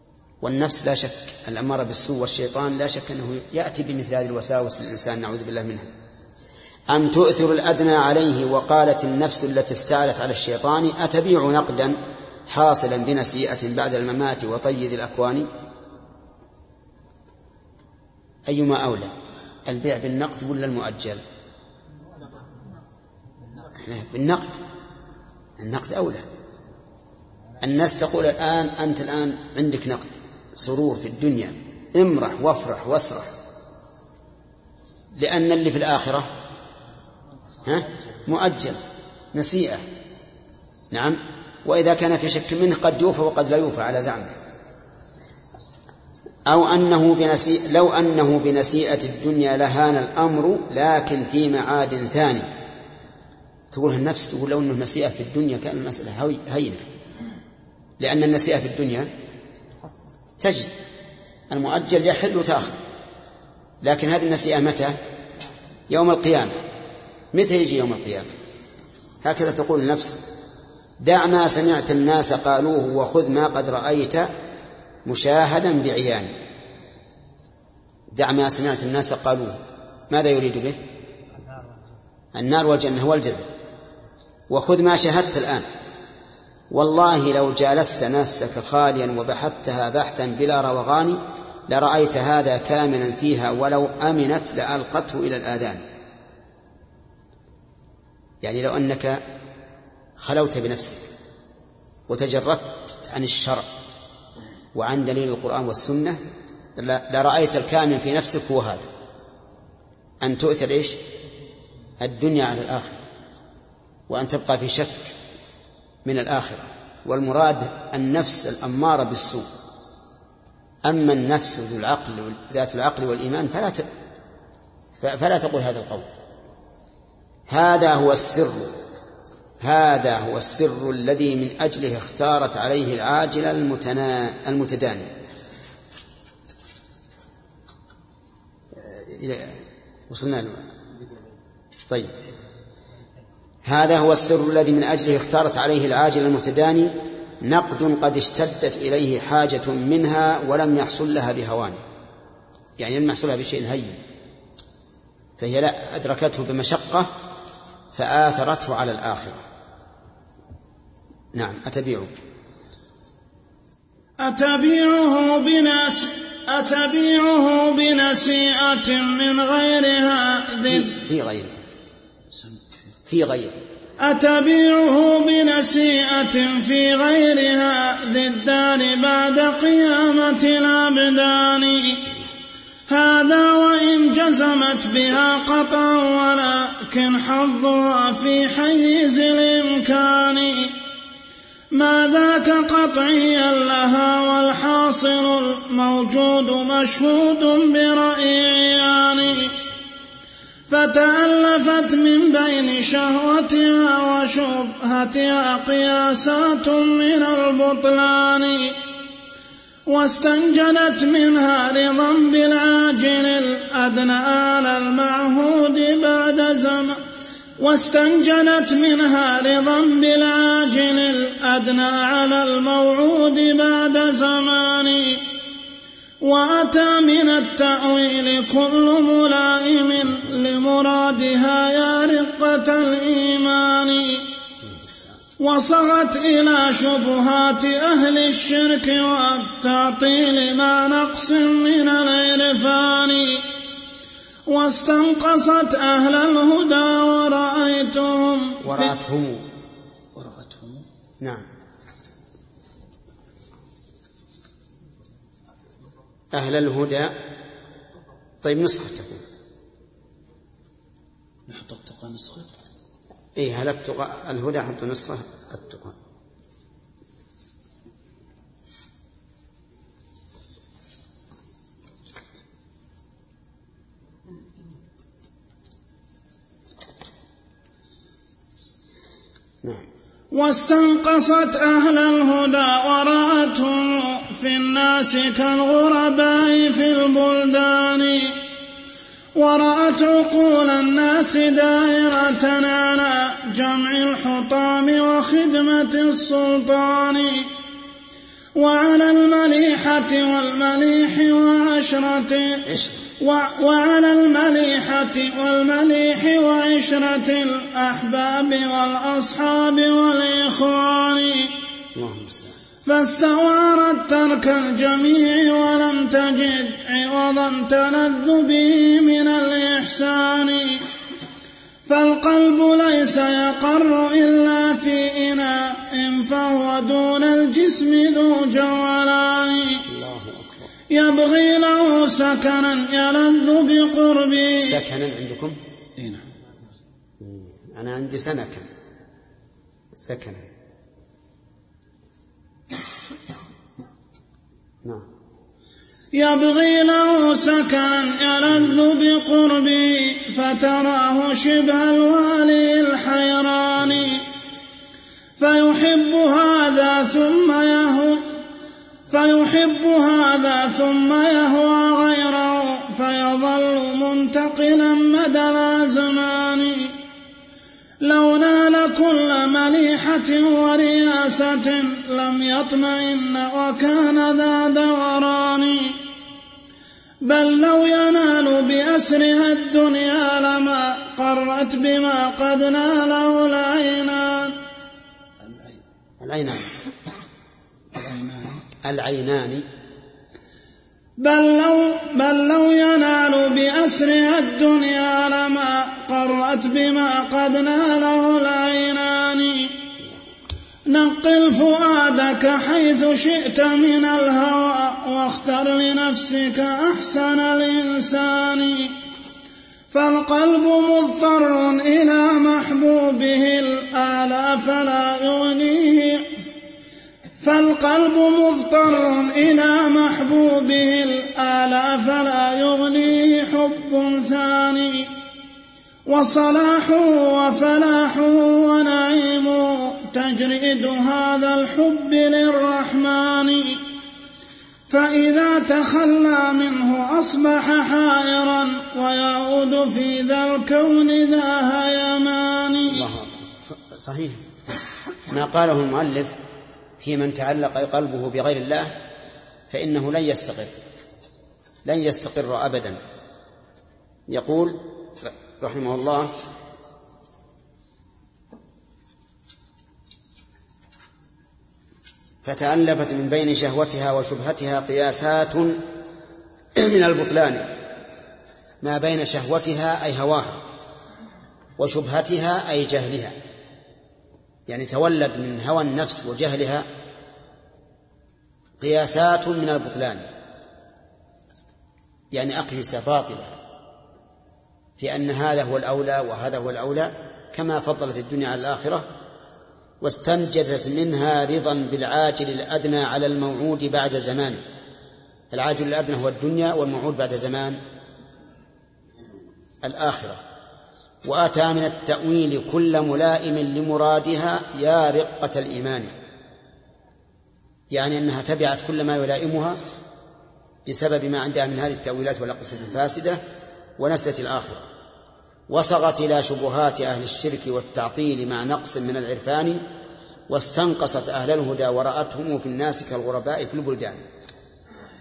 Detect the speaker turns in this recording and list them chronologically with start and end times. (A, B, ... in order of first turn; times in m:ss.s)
0:00.4-0:05.9 A
0:06.9-0:15.5 A
0:18.5-0:19.1 A
0:19.6-0:21.2 A
0:23.8-0:24.6 A
0:25.6-0:26.2 A
0:27.6-0:33.3 A
0:35.2-0:36.3 A
0:37.6-0:38.8 A
0:39.3-0:39.8 A
0:40.9-0:44.3 A
0:46.5-0:52.4 A
0:53.7-0:56.8 A
0:58.0-0:59.1 A
1:00.4-1:00.7 A
1:01.5-1:02.8 A
1:03.8-1:04.9 A
1:05.9-1:06.6 A
1:07.3-1:08.3 A
1:09.2-1:10.2 A
1:11.0-1:14.3 A
1:15.0-1:16.3 A
1:18.1-1:19.6 A
1:20.1-1:20.8 A
1:22.3-1:23.5 A
1:24.5-1:25.6 A
1:26.7-1:35.8 A
1:38.4-1:39.2 A
1:40.2-1:41.0 A
1:42.1-1:43.7 A
1:44.7-1:46.2 A
1:46.8-1:48.9 A
1:50.2-1:51.0 A
1:52.0-1:53.0 A
1:54.1-1:55.1 A
1:56.0-1:59.5 A
2:00.8-2:03.9 A
2:05.0-2:06.1 A
2:07.5-2:08.8 A
2:09.6-2:15.1 A
2:18.8-2:20.7 A
2:23.6-2:31.8 A
2:32.8-2:34.0 A
2:35.4-2:37.1 A
2:37.9-2:39.4 A
2:41.3-2:42.1 A
2:44.2-2:51.0 B
2:50.7-2:51.6 A
2:53.1-2:53.6 A
2:54.0-3:02.0 B
3:02.9-3:10.8 B
3:11.7-3:19.7 B
3:20.7-3:28.8 B
3:29.9-3:37.0 B
3:37.6-3:45.3 B
3:46.2-3:54.3 B
3:55.4-4:03.5 B
4:04.5-4:08.9 B
4:08.6-4:09.4 A
4:10.2-4:10.8 C
4:16.3-4:17.1 A
4:18.4-4:19.2 A
4:21.5-4:22.6 C
4:23.4-4:25.9 A
4:40.3-4:48.4 B
4:49.4-4:57.5 B
4:58.6-5:02.6 B
5:02.6-5:03.0 A
5:03.2-5:11.5 B
5:11.9-5:12.5 A
5:12.8-5:20.8 B
5:21.9-5:29.8 B
5:29.9-5:30.5 A
5:30.9-5:34.8 B
5:34.6-5:35.6 A
5:36.0-5:36.3 C
5:37.2-5:38.6 A
5:39.9-5:40.4 A
5:46.1-5:54.2 B
5:55.4-5:58.2 B
5:59.1-6:07.0 B
6:08.0-6:16.0 B
6:17.2-6:24.6 B
6:26.2-6:26.6 A
6:28.0-6:28.6 C
6:28.8-6:29.6 A
6:31.2-6:39.7 B
6:40.9-6:49.0 B
6:49.9-6:56.4 B
6:57.4-7:05.1 B
7:06.1-7:13.8 B
7:14.9-7:23.0 B
7:22.9-7:24.4 A
7:25.3-7:26.4 A
7:27.0-7:28.9 A
7:29.7-7:30.7 A
7:31.8-7:33.0 A
7:34.3-7:36.3 A
7:42.4-7:45.8 A
7:46.8-7:47.7 A
7:48.8-7:50.6 A
7:51.8-7:53.4 A
7:54.7-7:56.8 A
7:58.8-8:00.2 A
8:02.3-8:03.5 A
8:05.0-8:09.1 A
8:10.0-8:14.6 A
8:15.5-8:17.8 A
8:19.8-8:20.4 A
8:21.2-8:26.1 A
8:27.9-8:29.8 A
8:30.9-8:33.4 A
8:34.0-8:34.8 A
8:35.7-8:39.8 A
8:40.5-8:44.2 A